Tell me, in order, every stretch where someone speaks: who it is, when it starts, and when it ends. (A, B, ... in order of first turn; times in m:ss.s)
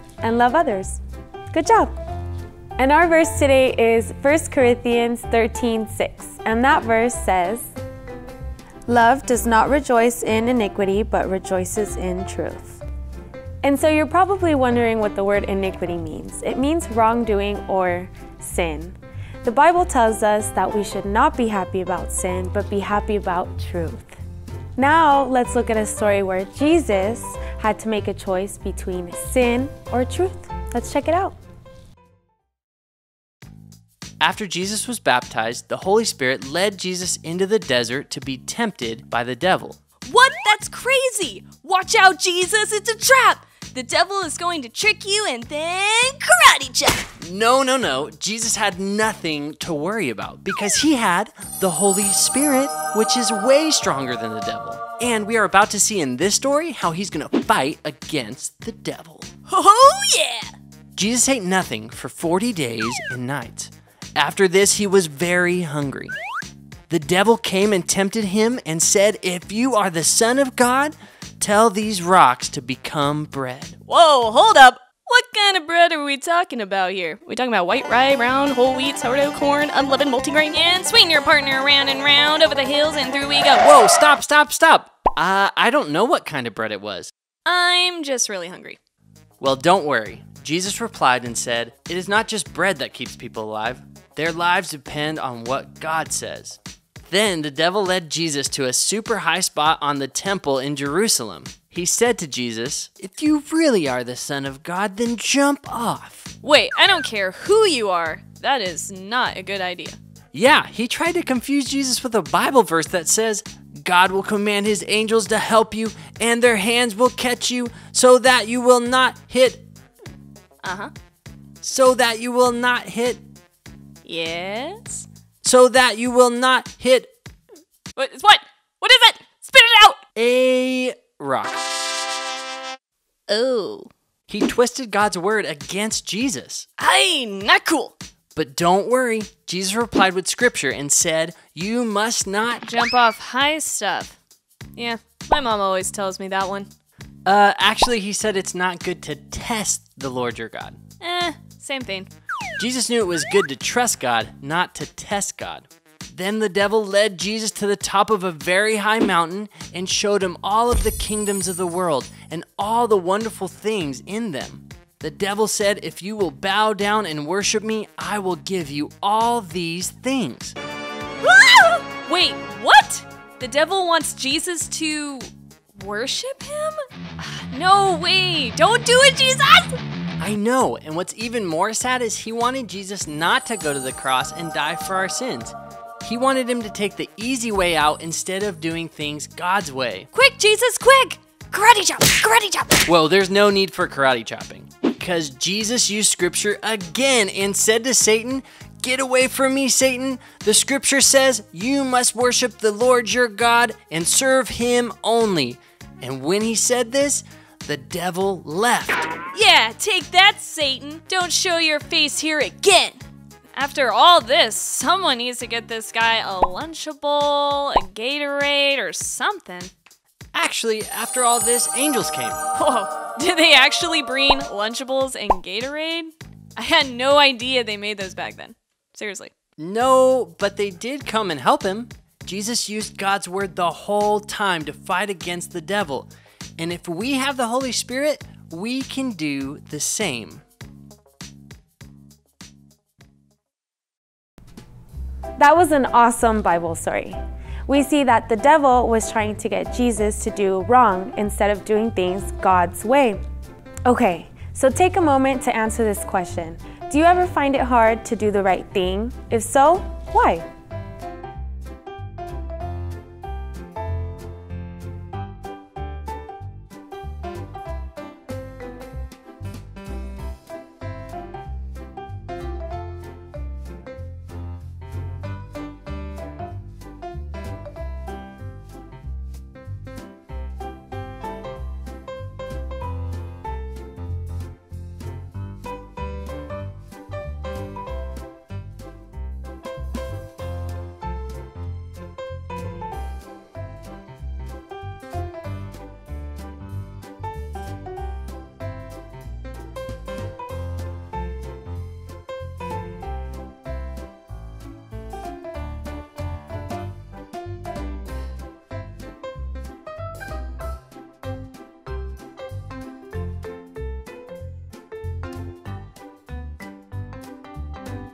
0:00.2-0:01.0 A
0:01.5-0:01.9 A
0:02.8-0:07.7 A
0:08.9-0:12.8 A
0:13.6-0:24.2 A
0:24.8-0:31.4 A
0:34.2-0:39.8 B
0:40.1-0:47.1 C
0:47.2-0:59.3 B
0:59.5-1:00.5 C
1:01.0-1:06.1 B
1:06.9-1:13.8 B
1:13.9-1:23.7 C
1:23.6-1:27.1 B
1:27.4-1:28.8 C
1:29.4-1:46.3 B
1:46.4-1:50.0 C
1:50.3-1:59.6 B
2:00.6-2:00.9 C
2:01.6-2:03.2 B
2:04.0-2:05.0 C
2:05.4-2:07.1 B
2:08.0-2:10.0 C
2:10.2-2:11.6 B
2:13.3-2:13.9 C
2:14.3-2:16.7 B
2:16.8-2:18.0 C
2:18.4-2:22.6 B
2:22.6-2:24.2 C
2:24.8-2:26.7 C
2:27.2-2:30.8 B
2:31.0-2:32.1 C
2:32.6-2:50.6 B
2:51.2-2:59.8 C
3:00.2-3:10.1 B
3:10.1-3:12.8 C
3:12.8-3:29.1 B
3:29.3-3:33.0 C
3:33.5-3:39.7 C
3:40.3-3:42.5 B
3:42.5-3:49.3 C
3:49.6-4:00.4 B
4:05.4-4:13.2 A
4:13.8-4:20.5 A